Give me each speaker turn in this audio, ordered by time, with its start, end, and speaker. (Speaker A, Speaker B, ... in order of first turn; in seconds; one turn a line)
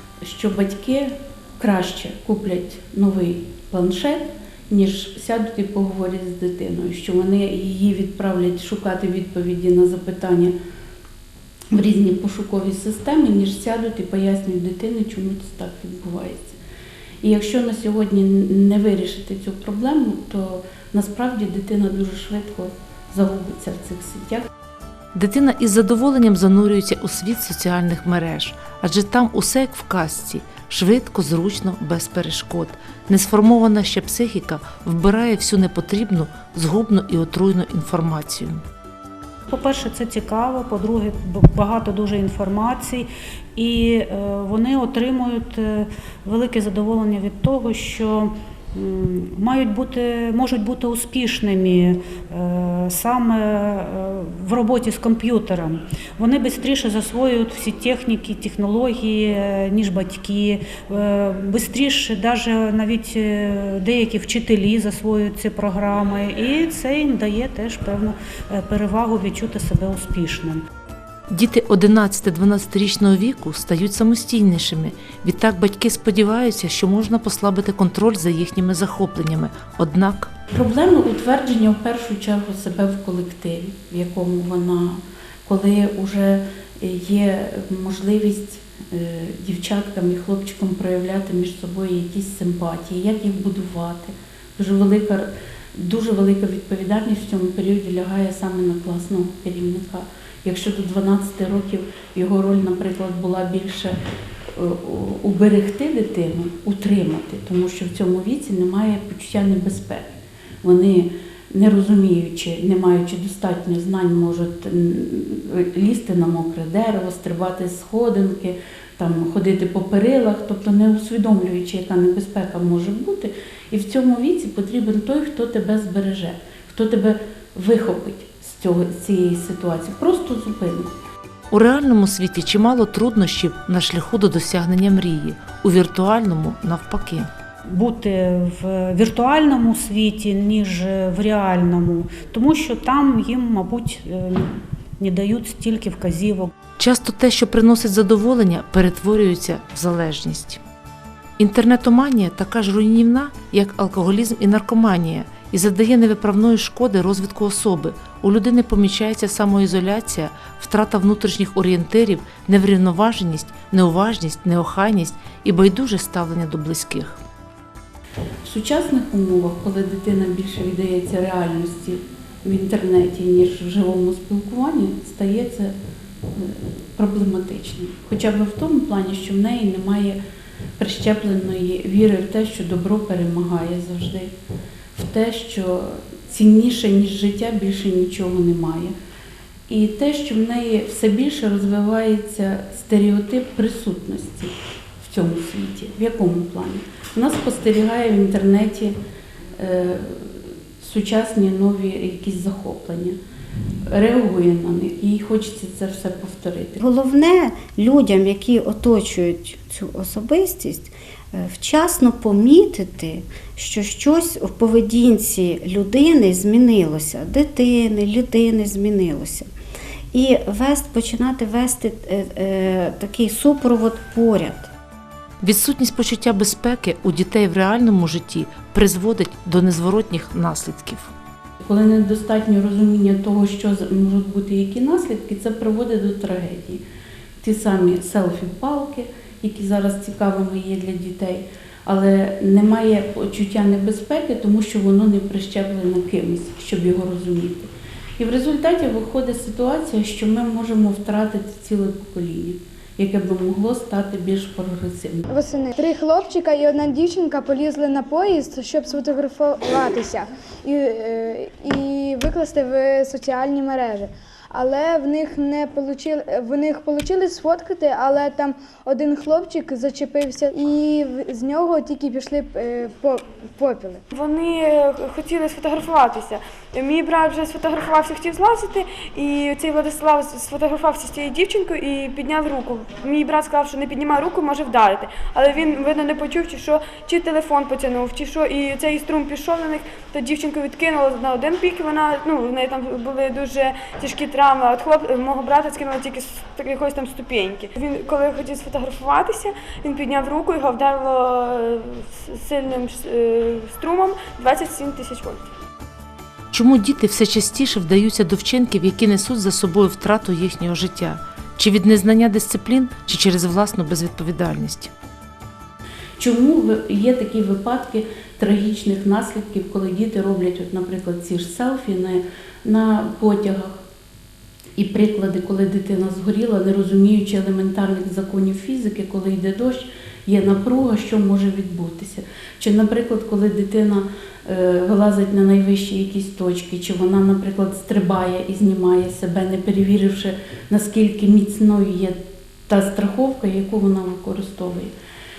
Speaker A: 0.2-10.5
Speaker A: 11.7-16.6
Speaker A: 17.2-24.4
Speaker B: 25.1-38.6
Speaker C: 39.5-70.6
Speaker B: 71.3-80.3
Speaker A: 80.5-104.0
Speaker A: 104.5-130.9
Speaker B: 131.5-137.3
Speaker C: 137.7-146.5
Speaker B: 146.8-150.6
Speaker B: 151.4-167.2
Speaker A: 168.4-175.7
Speaker A: 176.3-180.2
Speaker A: 180.8-184.3
Speaker A: 184.9-188.9
Speaker A: 189.7-198.9
Speaker A: 199.6-203.2
Speaker A: 203.9-206.8
Speaker D: 206.8-219.5
Speaker D: 220.1-224.7
Speaker B: 225.4-231.1
Speaker A: 231.6-236.8
Speaker A: 237.4-255.3
Speaker E: 255.3-274.0
Speaker F: 274.1-305.5
Speaker B: 306.5-314.9
Speaker A: 316.2-323.8
Speaker A: 324.8-344.9